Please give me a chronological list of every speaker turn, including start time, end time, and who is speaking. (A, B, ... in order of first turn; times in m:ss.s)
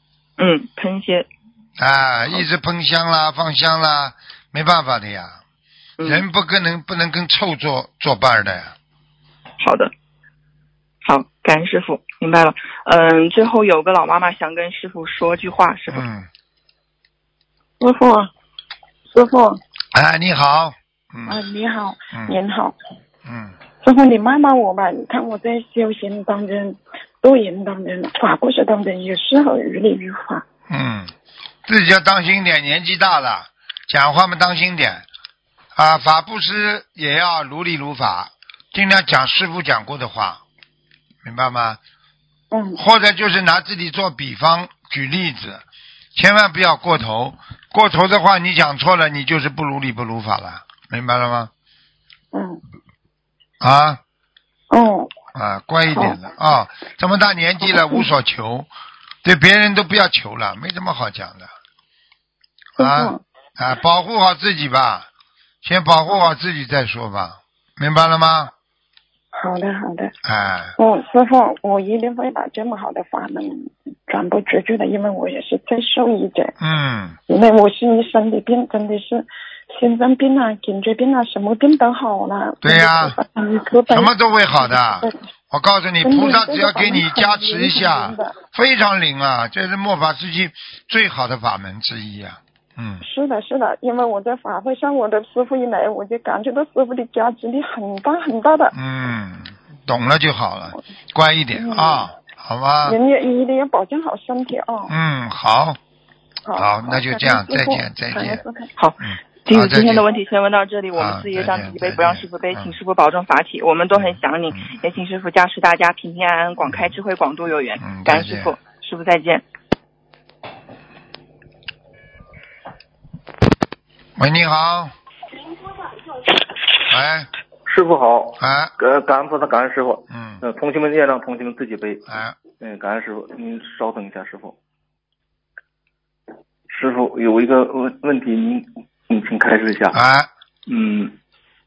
0:00.4-0:01.3 A
0:01.8-0:05.4 B
0:06.0-0:06.2 A
0:06.0-0:08.7 B
0:09.6-0:09.9 A
0:11.0-0:16.0 A
0:15.9-0:16.3 B
0:17.8-0:18.3 C
0:19.1-0:19.6 C
0:19.9-0:21.4 B
0:21.3-0:22.8 C
0:22.1-0:22.4 B
0:23.3-0:23.6 B
0:23.8-0:30.4 C
0:30.7-0:31.1 B
0:31.7-0:35.1 B
0:35.8-0:40.4 B
0:41.2-0:41.8 B
0:42.5-0:42.8 C
0:42.8-0:45.6 B
0:46.2-0:51.5 B
0:52.3-0:52.6 C
0:53.6-0:54.0 B
0:54.7-0:55.1 C
0:55.3-0:58.7 B
0:59.2-1:01.5 B
1:02.8-1:03.2 C
1:02.8-1:05.1 B
1:05.6-1:08.5 B
1:09.3-1:10.1 C
1:10.2-1:10.8 B
1:10.8-1:16.5 C
1:16.6-1:17.2 B
1:17.3-1:25.1 C
1:22.6-1:23.2 B
1:23.9-1:33.0 B
1:26.0-1:28.4 C
1:33.0-1:38.7 C
1:38.7-1:43.0 B
1:41.5-1:42.1 C
1:42.8-1:44.9 C
1:44.9-1:45.8 B
1:46.5-1:48.7 C
1:46.6-1:48.4 B
1:48.8-1:59.4 A
1:49.0-1:50.0 B
1:51.0-1:52.7 B
1:53.9-1:54.7 B
1:57.8-1:58.5 B
2:04.2-2:04.9 B
2:06.9-2:07.3 B
2:07.7-2:12.0 D
2:08.4-2:08.7 B
2:10.1-2:10.4 B
2:12.1-2:12.4 B
2:12.6-2:14.6 D
2:16.7-2:20.0 D
2:19.9-2:20.3 B
2:20.7-2:21.2 D